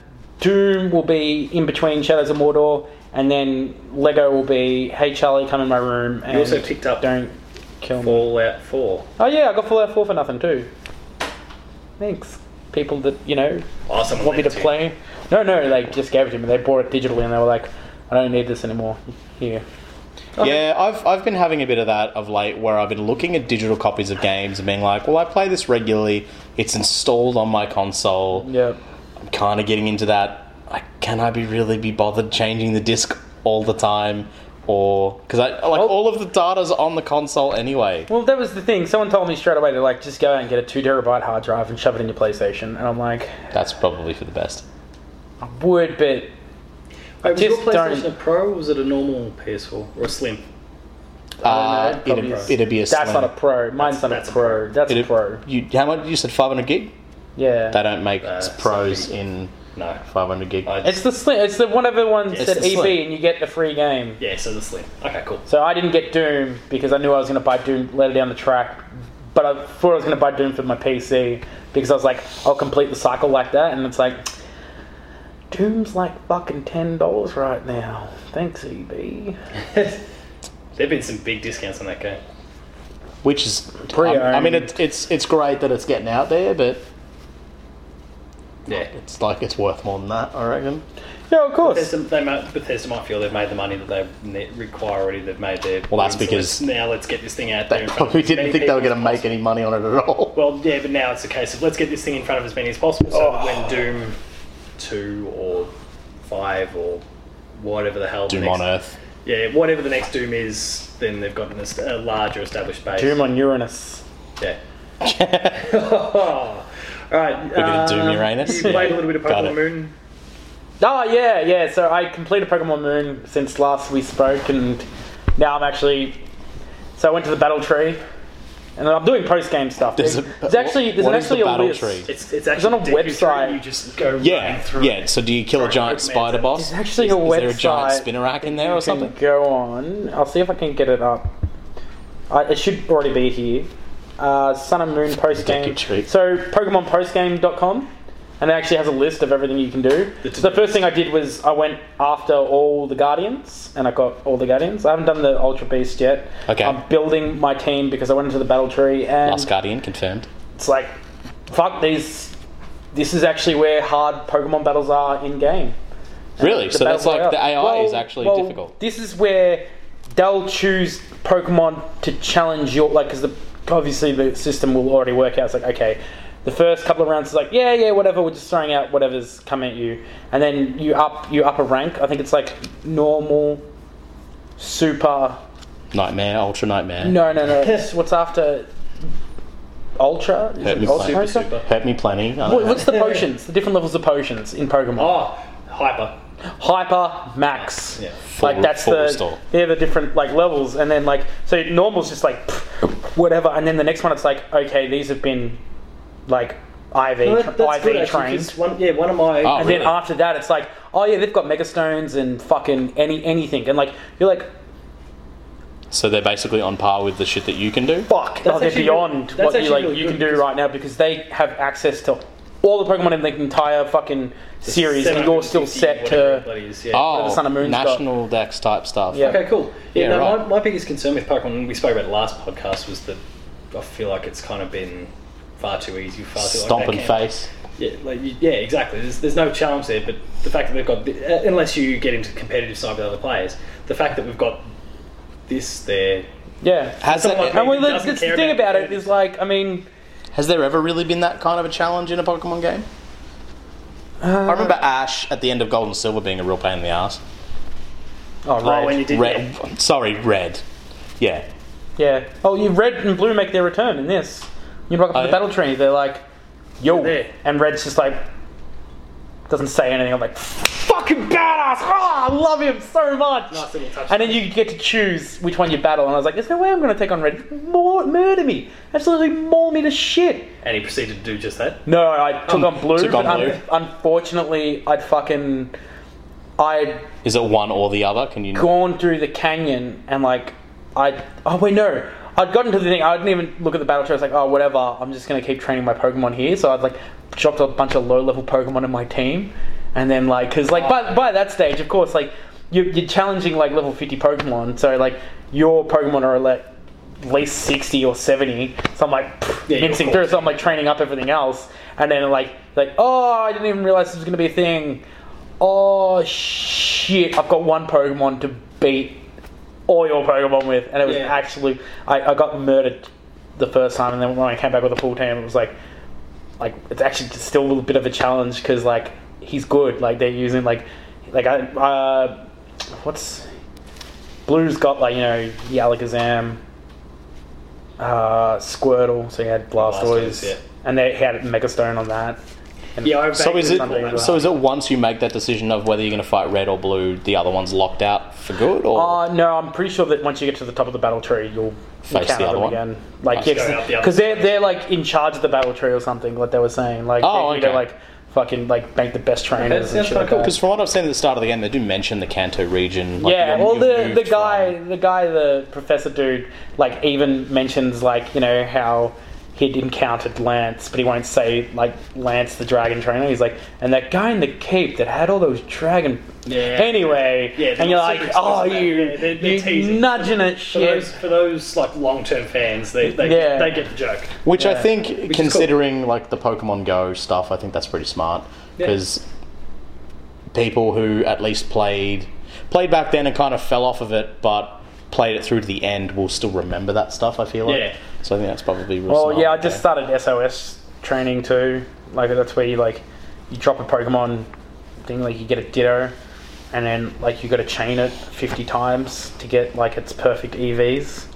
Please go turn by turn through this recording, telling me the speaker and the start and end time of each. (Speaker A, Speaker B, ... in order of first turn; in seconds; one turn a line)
Speaker A: 0.4-8.3
Speaker B: 6.3-7.0
Speaker B: 8.0-9.1
Speaker A: 9.2-10.7
Speaker A: 12.0-19.6
Speaker B: 13.9-14.8
Speaker B: 20.4-20.6
Speaker C: 20.4-28.5
Speaker A: 28.4-28.8
Speaker C: 29.2-38.1
Speaker A: 38.1-43.4
Speaker C: 43.5-44.6
Speaker A: 45.4-46.3
Speaker B: 47.2-50.4
Speaker A: 47.2-48.1
Speaker A: 51.4-55.4
Speaker C: 51.4-53.3
Speaker B: 53.8-54.7
Speaker C: 54.9-56.9
Speaker A: 57.4-57.8
Speaker C: 57.7-59.5
Speaker B: 58.2-59.1
Speaker B: 59.7-60.0
Speaker C: 60.0-60.7
Speaker B: 60.6-61.0
Speaker A: 60.8-64.2
Speaker B: 62.3-62.8
Speaker C: 62.4-63.0
Speaker B: 64.2-65.4
Speaker A: 65.5-68.8
Speaker A: 69.3-74.2
Speaker A: 75.5-79.4
Speaker B: 79.7-80.0
Speaker B: 80.8-82.2
Speaker C: 83.2-86.8
Speaker A: 83.9-84.8
Speaker C: 88.7-90.8
Speaker A: 91.3-91.9
Speaker B: 91.6-99.2
Speaker C: 95.9-96.6
Speaker C: 97.7-100.5
Speaker B: 100.3-104.2
Speaker A: 103.2-103.7
Speaker B: 104.8-105.7
Speaker B: 106.2-107.0
Speaker B: 107.6-108.6
Speaker C: 108.3-109.0
Speaker B: 109.2-113.2
Speaker A: 112.9-114.0
Speaker C: 115.0-115.6
Speaker B: 115.5-119.9
Speaker C: 117.5-119.6
Speaker A: 118.5-119.0
Speaker A: 120.8-124.9
Speaker A: 125.4-126.2
Speaker A: 127.0-128.0
Speaker A: 128.8-133.6
Speaker C: 130.0-132.1
Speaker B: 132.1-136.6
Speaker C: 134.2-139.1
Speaker A: 136.5-141.3
Speaker A: 142.3-159.5
Speaker C: 145.3-146.1
Speaker B: 150.2-150.8
Speaker C: 156.5-156.8
Speaker C: 159.2-160.3
Speaker A: 160.6-160.9
Speaker A: 161.5-162.3
Speaker A: 162.9-165.8
Speaker A: 166.4-183.6
Speaker C: 166.4-168.7
Speaker A: 184.6-185.4
Speaker C: 185.9-187.2
Speaker A: 187.0-188.7
Speaker A: 190.0-191.5
Speaker C: 190.6-193.0
Speaker B: 190.8-191.6
Speaker A: 192.4-195.2
Speaker B: 195.0-196.2
Speaker A: 196.6-205.6
Speaker C: 198.3-199.4
Speaker A: 206.3-208.5
Speaker B: 207.2-209.9
Speaker C: 209.4-210.0
Speaker A: 209.5-214.5
Speaker C: 215.9-218.1
Speaker A: 218.1-228.0
Speaker B: 218.4-220.5
Speaker B: 224.6-227.1
Speaker C: 226.9-229.4
Speaker A: 229.1-229.4
Speaker B: 229.2-233.2
Speaker C: 229.9-230.5
Speaker B: 233.7-244.7
Speaker C: 236.4-237.5
Speaker B: 245.5-246.3
Speaker A: 246.6-249.9
Speaker C: 247.0-247.6
Speaker B: 247.0-249.1
Speaker C: 250.3-252.9
Speaker A: 254.2-254.8
Speaker C: 254.4-257.2
Speaker A: 258.4-259.1
Speaker B: 258.6-259.5
Speaker C: 259.1-260.6
Speaker C: 261.2-261.5
Speaker A: 262.0-266.2
Speaker C: 265.1-265.4
Speaker A: 266.8-268.2
Speaker B: 266.8-267.3
Speaker A: 269.5-280.5
Speaker B: 273.5-274.5
Speaker B: 280.6-281.8
Speaker A: 281.9-285.7
Speaker C: 282.5-283.6
Speaker A: 286.6-287.1
Speaker C: 287.2-288.7
Speaker A: 288.5-306.7
Speaker A: 307.2-315.0
Speaker B: 309.7-310.5
Speaker A: 315.6-319.2
Speaker A: 319.9-325.8
Speaker B: 321.1-321.4
Speaker A: 326.6-332.4
Speaker A: 333.0-333.5
Speaker A: 334.5-336.6
Speaker A: 338.0-342.4
Speaker B: 339.8-340.6
Speaker A: 343.0-344.4
Speaker B: 343.0-344.5
Speaker C: 343.3-349.2
Speaker A: 348.9-360.5
Speaker C: 352.1-352.8
Speaker B: 353.4-354.6
Speaker C: 357.2-357.9
Speaker B: 359.6-360.5
Speaker C: 360.3-364.8
Speaker A: 363.2-381.1
Speaker B: 376.4-384.4
Speaker A: 383.0-383.8
Speaker C: 384.4-389.2
Speaker A: 384.6-384.9
Speaker B: 385.3-385.7
Speaker C: 390.5-399.8
Speaker B: 397.6-398.0
Speaker A: 399.1-404.5
Speaker A: 405.0-406.1
Speaker A: 406.7-411.3